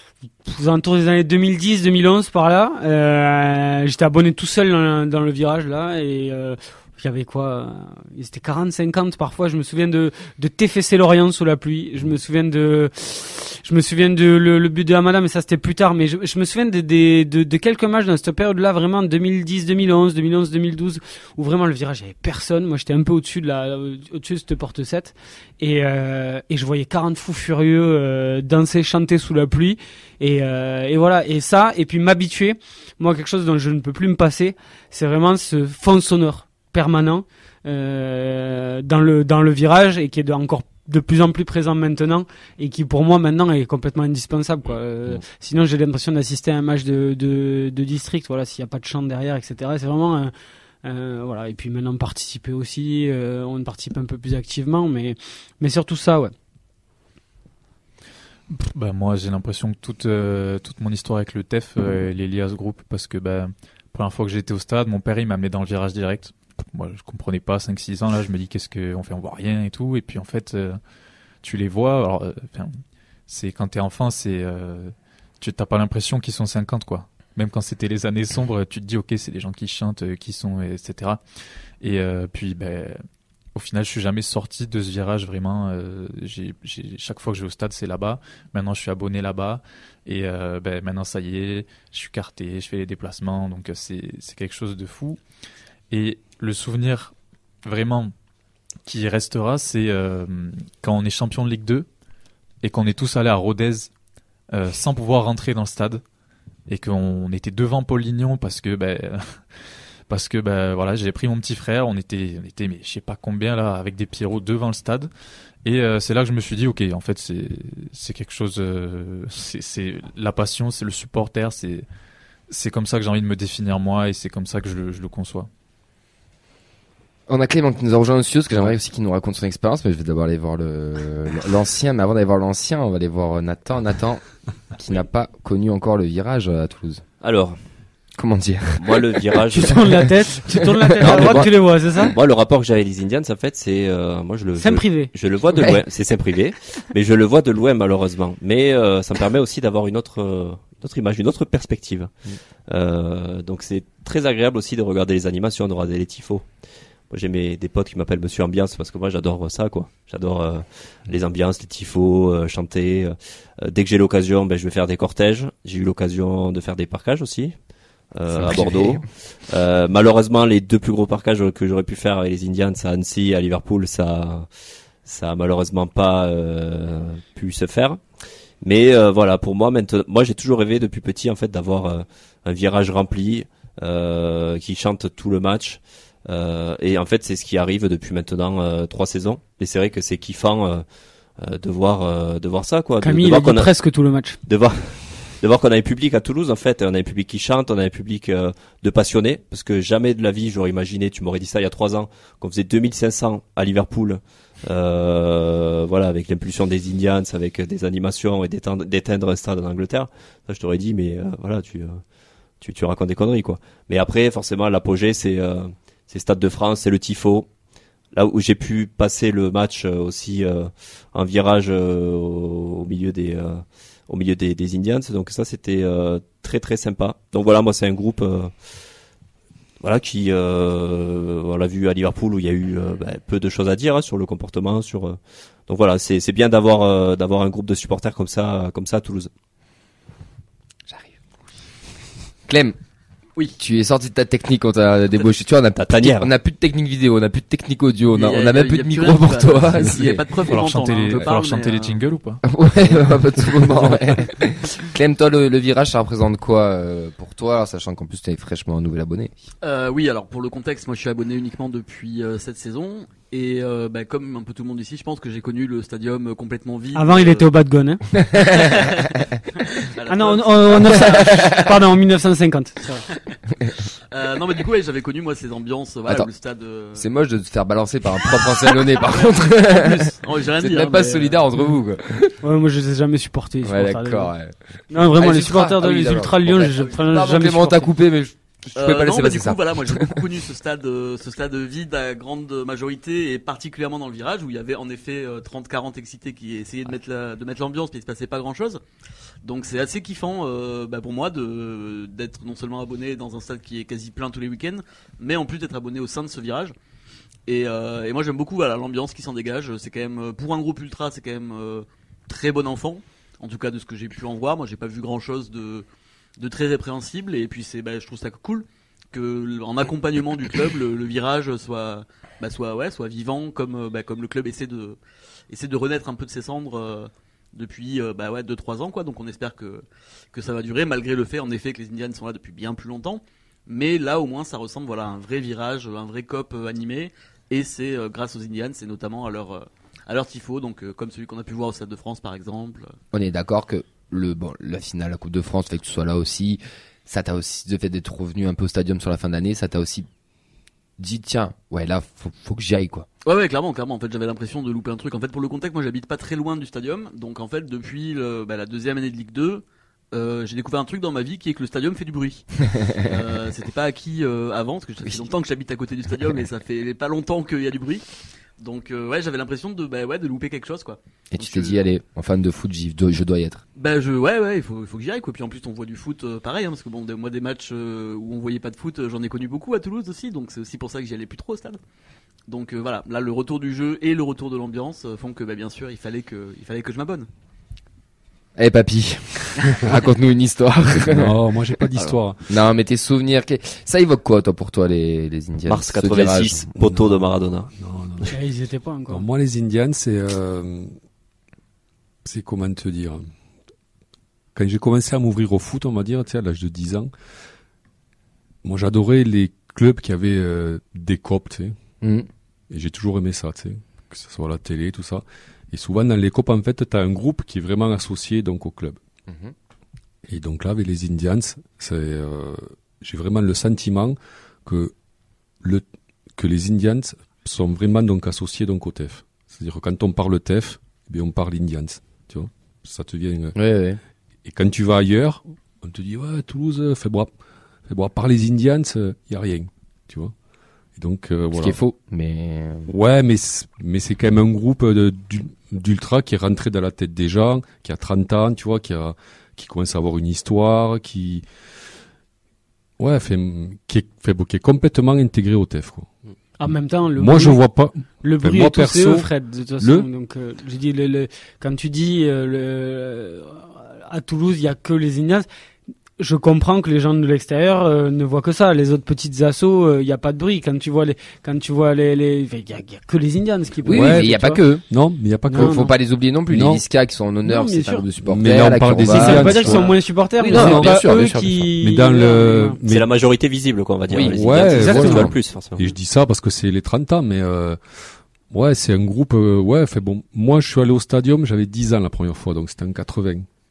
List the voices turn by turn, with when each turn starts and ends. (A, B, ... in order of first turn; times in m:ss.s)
0:00.4-0:50.3 A
0:50.8-0:56.3 A
0:58.5-1:10.8 B
1:11.4-1:21.2 B
1:21.8-1:23.0 B
1:23.5-1:35.2 B
1:35.9-1:38.1 B
1:38.8-1:41.9 B
1:42.6-1:43.9 B
1:44.5-1:46.0 B
1:46.7-1:49.4 B
1:50.1-1:55.1 B
1:55.6-2:01.8 B
2:02.5-2:05.5 B
2:07.3-2:14.2 C
2:14.7-2:17.0 C
2:17.2-2:17.6 D
2:18.2-2:19.3 C
2:18.8-2:20.0 D
2:19.5-2:22.1 A
2:21.0-2:22.1 C
2:21.1-2:21.4 D
2:22.1-2:32.1 D
2:24.6-2:25.1 A
2:32.7-2:36.5 D
2:37.1-2:47.5 D
2:48.1-2:54.5 D
2:48.3-2:49.0 C
2:55.0-2:58.0 D
2:58.6-3:10.8 D
3:11.4-3:13.8 D
3:13.0-3:14.4 A
3:14.4-3:32.0 D
3:32.6-3:37.5 D
3:38.1-3:48.5 D
3:49.8-3:59.3 D
4:02.5-4:02.8 C
4:03.6-4:10.2 C
4:05.8-4:06.3 D
4:08.1-4:12.0 E
4:10.4-4:12.4 B
4:12.4-4:19.3 C
4:19.6-4:27.5 E
4:26.9-4:28.0 A
4:28.4-4:31.8 E
4:30.1-4:33.0 A
4:34.1-4:37.0 E
4:36.9-4:42.3 C
4:38.8-4:41.4 E
4:42.4-4:44.3 A
4:43.6-4:50.2 C
4:44.9-4:47.9 A
4:48.7-4:58.8 E
4:59.4-5:06.7 E
5:07.5-5:15.8 E
5:16.4-5:25.0 E
5:25.5-5:42.9 E
5:43.1-5:50.1 C
5:51.0-5:53.1 C
5:53.2-6:08.0 E
6:02.8-6:03.1 C
6:05.0-6:05.3 C
6:08.6-6:11.8 E
6:11.3-6:13.6 C
6:13.8-6:21.8 E
6:22.5-6:27.3 E
6:28.6-6:31.4 C
6:31.0-6:32.4 F
6:31.9-6:36.7 C
6:35.7-6:37.7 D
6:36.7-6:38.4 F
6:38.3-6:39.2 A
6:39.1-6:40.9 F
6:42.2-6:43.3 F
6:44.5-6:47.1 F
6:48.6-6:51.7 F
6:52.7-6:59.0 F
6:59.3-6:59.5 C
7:00.3-7:04.9 F
7:05.6-7:13.5 F
7:13.6-7:14.0 C
7:14.4-7:17.3 F
7:17.9-7:20.3 F
7:21.0-7:21.8 F
7:21.5-7:22.9 C
7:22.9-7:31.4 F
7:33.0-7:36.1 F
7:36.6-7:37.6 A
7:37.2-7:40.1 F
7:38.2-7:45.5 A
7:46.2-7:54.6 A
7:53.8-7:54.8 C
7:53.9-7:55.9 F
7:55.5-7:55.9 A
7:55.5-8:01.1 C
7:56.5-7:56.8 F
7:57.4-7:58.0 A
7:58.2-8:03.1 F
7:59.1-8:02.8 A
8:02.9-8:05.8 D
8:04.1-8:05.3 C
8:04.2-8:13.4 F
8:04.6-8:05.3 A